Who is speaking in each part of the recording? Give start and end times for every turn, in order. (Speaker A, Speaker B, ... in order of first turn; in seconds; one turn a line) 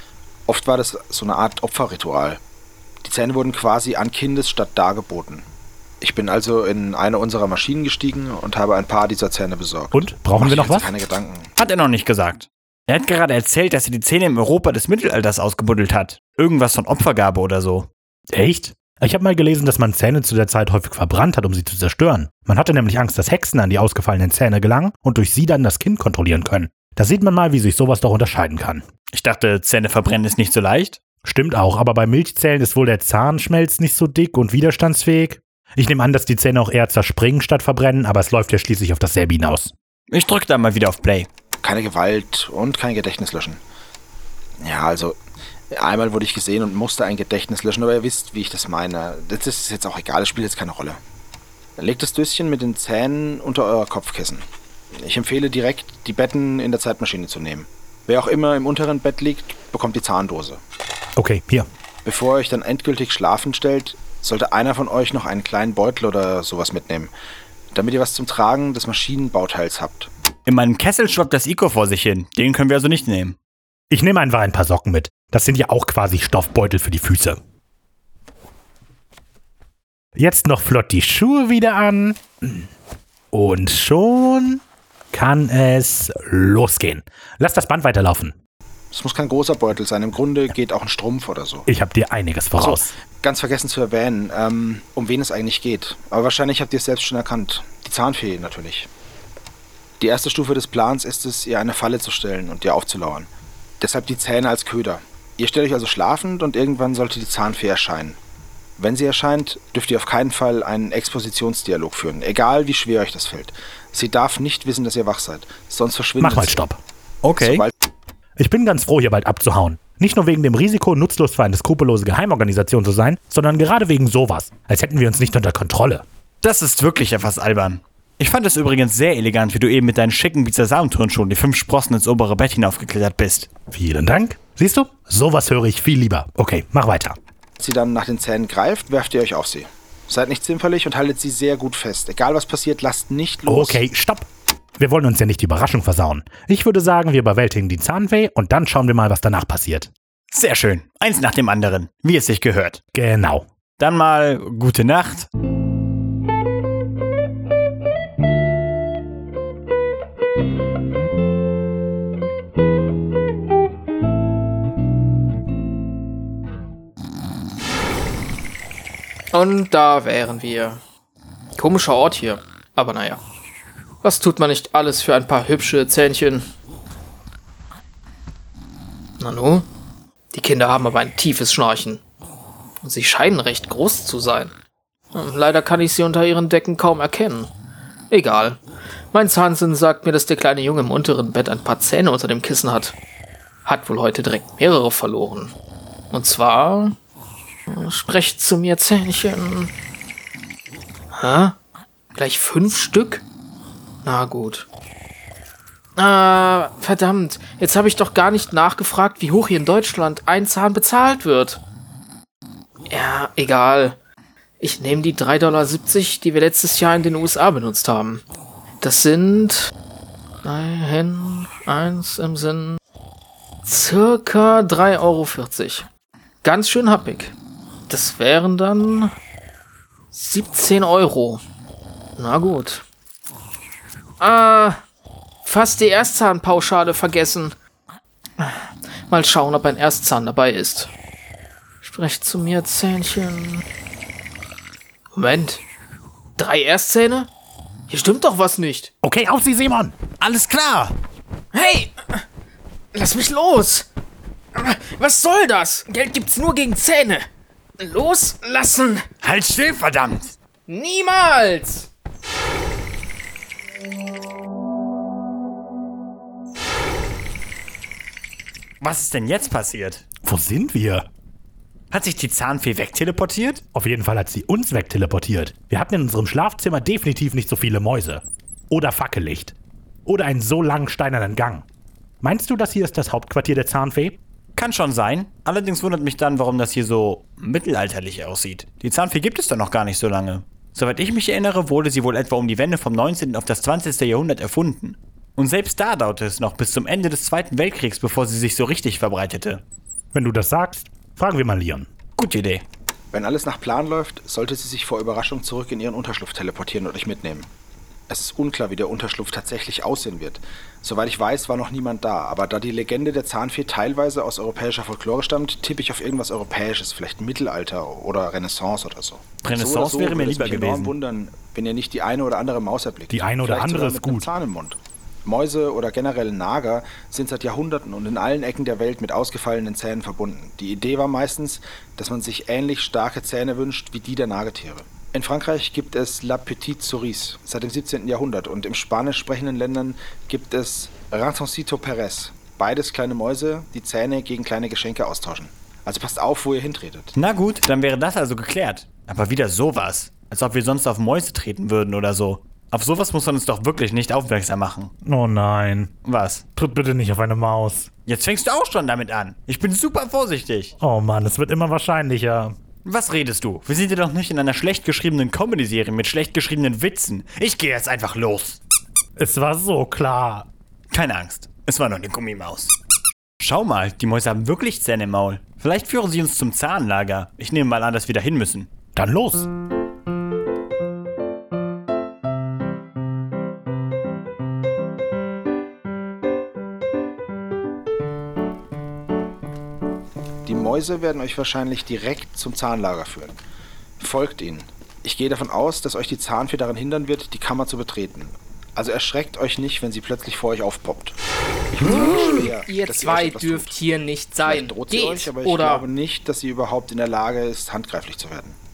Speaker A: 0.5-2.4
Speaker A: 3.0-5.5
Speaker A: 6.0-11.5
Speaker B: 9.9-10.9
Speaker C: 11.6-17.9
Speaker B: 18.3-28.8
Speaker C: 29.1-31.0
Speaker B: 31.2-39.7
Speaker C: 40.1-41.3
Speaker A: 41.6-43.6
Speaker A: 44.6-45.1
Speaker A: 45.7-51.0
Speaker A: 51.8-60.6
Speaker B: 61.1-61.7
Speaker A: 62.0-67.1
Speaker A: 67.7-70.1
Speaker C: 70.5-73.4
Speaker B: 73.9-77.4
Speaker B: 80.2-82.7
Speaker B: 83.3-88.3
Speaker A: 88.9-91.7
Speaker B: 91.7-92.9
Speaker A: 92.6-98.9
Speaker A: 100.0-103.3
Speaker A: 103.8-108.2
Speaker A: 108.8-116.6
Speaker B: 116.2-116.8
Speaker C: 117.2-117.7
Speaker A: 117.4-117.7
Speaker B: 118.4-126.0
Speaker C: 126.4-133.5
Speaker B: 133.7-137.2
Speaker A: 137.6-143.8
Speaker B: 143.4-149.9
Speaker C: 150.3-152.8
Speaker B: 152.9-153.4
Speaker C: 153.8-155.3
Speaker D: 169.3-170.8
Speaker D: 171.6-173.2
Speaker D: 174.0-176.4
Speaker D: 179.2-179.7
Speaker D: 180.3-182.0
Speaker D: 182.8-184.5
Speaker D: 185.1-187.5
Speaker D: 188.1-188.6
Speaker D: 189.1-192.9
Speaker D: 193.7-195.5
Speaker D: 196.1-196.9
Speaker D: 197.7-199.7
Speaker D: 201.1-201.6
Speaker D: 202.1-203.2
Speaker D: 204.0-204.7
Speaker D: 206.0-211.6
Speaker D: 212.9-214.0
Speaker D: 214.6-218.2
Speaker D: 218.8-219.7
Speaker D: 220.4-222.8
Speaker D: 223.7-225.9
Speaker D: 226.4-227.3
Speaker D: 227.9-229.1
Speaker D: 230.1-231.4
Speaker D: 232.2-232.8
Speaker D: 234.2-234.8
Speaker D: 235.4-237.5
Speaker D: 238.4-240.9
Speaker D: 241.8-243.6
Speaker D: 245.1-245.6
Speaker D: 246.4-247.3
Speaker D: 247.9-248.9
Speaker B: 249.0-249.9
Speaker C: 250.2-250.9
Speaker D: 251.5-252.2
Speaker D: 252.9-253.9
Speaker D: 254.5-257.2
Speaker D: 257.8-259.1
Speaker C: 259.2-260.3
Speaker D: 260.7-261.9
Speaker C: 268.8-270.0
Speaker B: 270.2-271.1
Speaker C: 271.9-273.6
Speaker B: 273.7-279.5
Speaker B: 280.1-281.6
Speaker B: 282.2-284.2
Speaker C: 284.6-299.6
Speaker B: 300.1-301.9
Speaker C: 302.2-302.6
Speaker A: 303.1-307.5
Speaker A: 308.1-347.1
Speaker C: 319.4-320.9
Speaker B: 323.1-324.3
Speaker C: 347.1-354.9
Speaker B: 355.0-355.9
Speaker C: 356.0-356.4
Speaker B: 356.6-357.9
Speaker C: 358.1-360.7
Speaker B: 360.8-362.6
Speaker C: 362.8-368.6
Speaker B: 369.2-370.5
Speaker C: 370.9-372.7
Speaker C: 373.4-378.7
Speaker B: 378.9-379.5
Speaker A: 390.4-393.4
Speaker A: 394.0-401.1
Speaker A: 401.7-403.8
Speaker D: 401.8-405.9
Speaker A: 404.4-408.6